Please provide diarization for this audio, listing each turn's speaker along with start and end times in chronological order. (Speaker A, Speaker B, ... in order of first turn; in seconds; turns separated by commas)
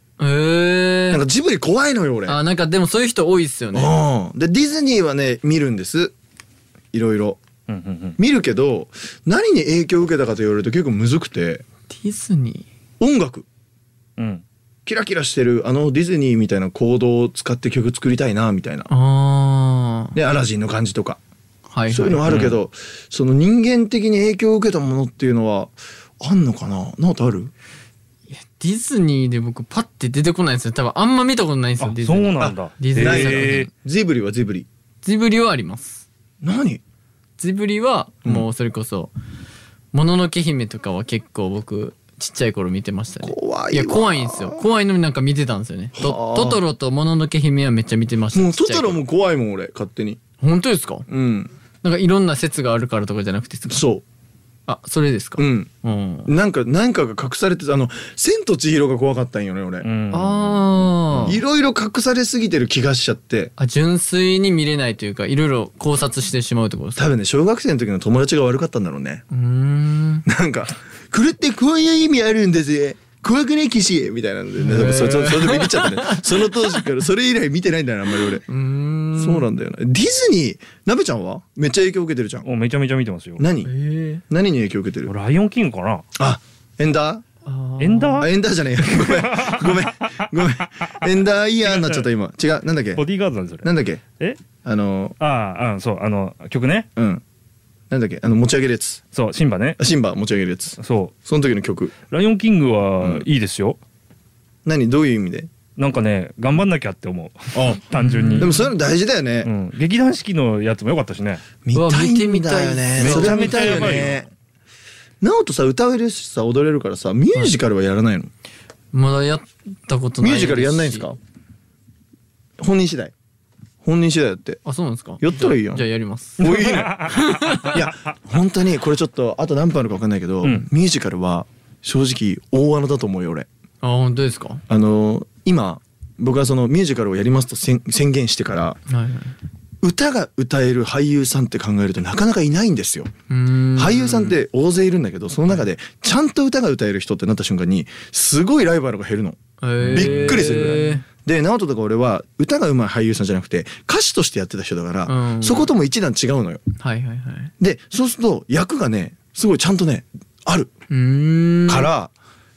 Speaker A: 0.2-1.2, Speaker B: 1.1-2.4, Speaker A: 2.3-4.0, Speaker B: 3.7-6.1, Speaker B: 6.9-7.4, Speaker C: 7.7-8.2, Speaker B: 8.2-11.6, Speaker A: 11.9-12.7, Speaker B: 13.0-13.5, Speaker C: 14.2-14.4, Speaker B: 14.9-18.9, Speaker A: 18.9-20.2, Speaker B: 20.1-21.2, Speaker A: 21.7-22.3, Speaker B: 21.9-27.5, Speaker C: 22.2-22.6, Speaker A: 28.3-33.7, Speaker C: 31.8-33.7, Speaker B: 32.4-34.7, Speaker A: 35.0-36.0, Speaker B: 36.4-36.8, Speaker A: 37.4-39.1, Speaker A: 39.9-49.0, Speaker B: 43.2-44.7, Speaker B: 46.0-46.6, Speaker B: 48.3-50.2, Speaker A: 50.4-51.1, Speaker B: 51.1-51.5, Speaker A: 51.8-53.8, Speaker B: 53.7-54.0, Speaker A: 54.7-56.3, Speaker B: 55.4-55.7, Speaker B: 56.3-59.9, Speaker C: 59.8-61.4, Speaker A: 60.1-61.4, Speaker B: 61.3-63.5, Speaker A: 63.6-67.2, Speaker B: 67.0-69.2, Speaker A: 69.3-70.3, Speaker B: 70.3-78.4, Speaker A: 74.6-76.8, Speaker A: 78.5-79.5, Speaker B: 79.2-82.5, Speaker C: 82.4-83.4, Speaker B: 83.4-83.7, Speaker A: 83.6-84.2, Speaker B: 84.3-85.1, Speaker C: 85.1-86.0, Speaker B: 86.2-87.2, Speaker A: 87.5-88.3, Speaker C: 87.8-88.3, Speaker B: 88.2-93.0, Speaker C: 88.8-91.0, Speaker C: 91.6-92.1, Speaker C: 93.0-93.7, Speaker B: 93.6-94.0, Speaker B: 94.6-95.2, Speaker C: 95.2-96.9, Speaker B: 97.0-97.2, Speaker B: 97.9-99.0, Speaker C: 99.1-99.8, Speaker B: 99.8-102.0, Speaker C: 100.8-101.1, Speaker C: 102.1-103.8, Speaker B: 103.0-103.3, Speaker B: 104.7-105.5, Speaker C: 105.8-108.7, Speaker B: 107.5-109.5, Speaker A: 107.9-108.7, Speaker C: 109.4-111.4, Speaker B: 111.7-114.3, Speaker A: 111.7-114.1, Speaker C: 113.0-114.2, Speaker B: 115.2-118.3, Speaker A: 118.9-121.1, Speaker B: 120.2-121.2, Speaker B: 122.6-123.1, Speaker B: 123.8-124.6, Speaker A: 124.6-127.8, Speaker B: 125.2-125.8, Speaker B: 126.4-133.5, Speaker C: 126.4-127.5, Speaker A: 133.8-134.6, Speaker B: 134.7-138.8, Speaker A: 138.9-139.3, Speaker B: 139.8-143.1, Speaker A: 143.3-144.4, Speaker B: 143.8-156.6, Speaker A: 149.6-151.0, Speaker C: 149.8-150.7, Speaker A: 155.1-155.7, Speaker A: 156.8-157.5, Speaker B: 157.6-160.7, Speaker A: 160.9-161.9, Speaker B: 161.7-162.1